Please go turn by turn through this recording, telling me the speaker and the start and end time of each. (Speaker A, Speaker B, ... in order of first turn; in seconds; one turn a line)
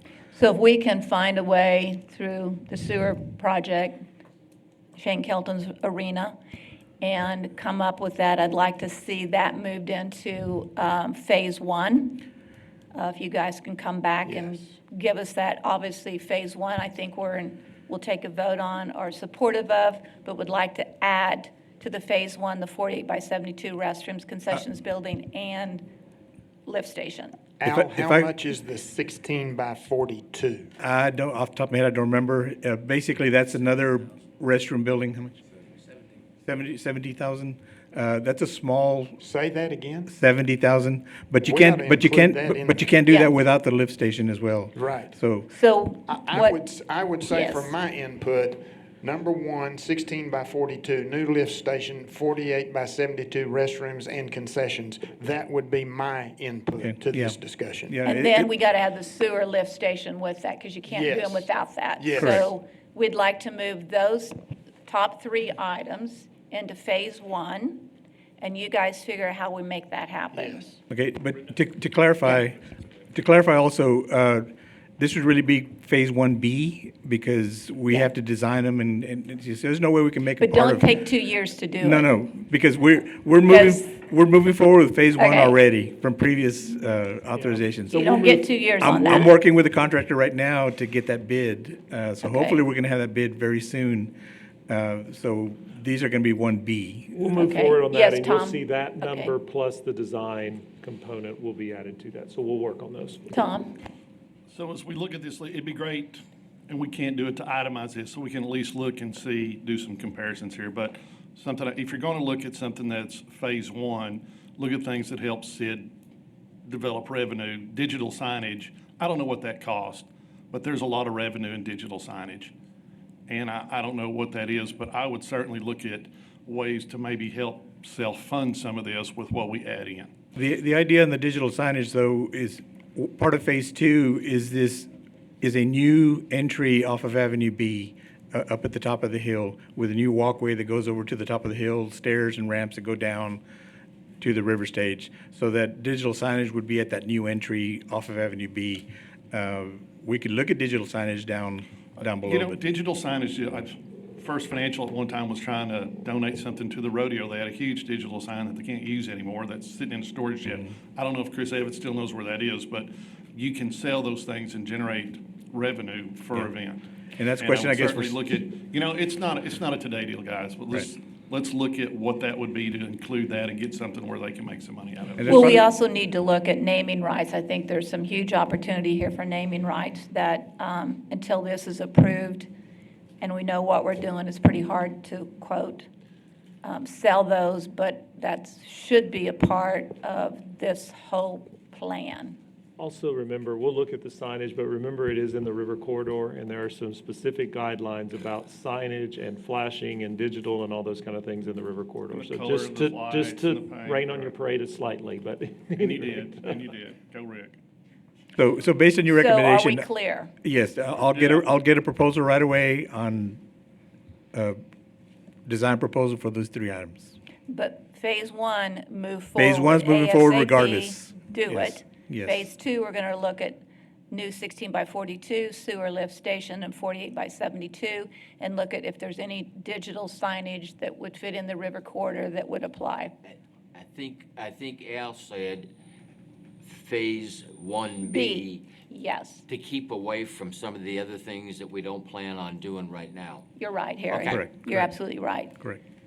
Speaker A: 0.3-4.0
Speaker A: 5.0-6.3
Speaker A: 7.0-12.2
Speaker A: 12.9-25.9
Speaker B: 14.2-14.6
Speaker A: 26.6-27.4
Speaker B: 27.6-30.7
Speaker C: 27.7-28.3
Speaker C: 30.8-35.4
Speaker C: 36.4-39.2
Speaker B: 39.2-40.1
Speaker C: 40.1-45.5
Speaker B: 41.4-42.9
Speaker A: 43.0-43.3
Speaker B: 44.7-45.1
Speaker A: 45.5-46.6
Speaker B: 46.1-58.0
Speaker A: 47.2-47.8
Speaker C: 56.8-57.4
Speaker C: 57.9-58.5
Speaker A: 58.0-64.3
Speaker B: 60.9-62.5
Speaker A: 64.8-67.8
Speaker A: 68.4-70.8
Speaker B: 70.3-70.7
Speaker C: 70.9-72.6
Speaker C: 73.1-80.9
Speaker A: 80.4-82.1
Speaker C: 81.8-88.0
Speaker A: 83.5-83.8
Speaker A: 85.2-85.6
Speaker D: 87.4-88.5
Speaker A: 87.9-89.3
Speaker C: 88.8-94.1
Speaker A: 92.2-92.6
Speaker C: 94.7-97.1
Speaker D: 97.1-103.4
Speaker A: 97.3-99.3
Speaker A: 103.3-103.8
Speaker E: 104.5-115.9
Speaker E: 116.6-122.5
Speaker E: 123.3-130.1
Speaker C: 130.3-134.9
Speaker C: 135.4-143.4
Speaker C: 144.2-152.6
Speaker E: 152.2-166.8
Speaker C: 167.2-168.2
Speaker E: 167.4-175.5
Speaker C: 175.2-175.6
Speaker A: 175.3-182.5
Speaker A: 183.2-185.9
Speaker A: 186.6-192.4
Speaker D: 192.8-206.6
Speaker E: 202.1-204.3
Speaker E: 205.8-207.5
Speaker C: 208.3-209.9
Speaker A: 209.1-210.3
Speaker C: 210.4-213.4
Speaker E: 211.1-211.4
Speaker C: 214.3-214.6
Speaker C: 215.5-217.1
Speaker A: 217.5-233.1
Speaker C: 219.3-222.5
Speaker F: 233.7-235.7
Speaker F: 236.6-238.7
Speaker A: 238.0-239.4
Speaker F: 239.5-243.4
Speaker A: 243.6-245.6
Speaker F: 244.1-244.4
Speaker C: 244.3-245.8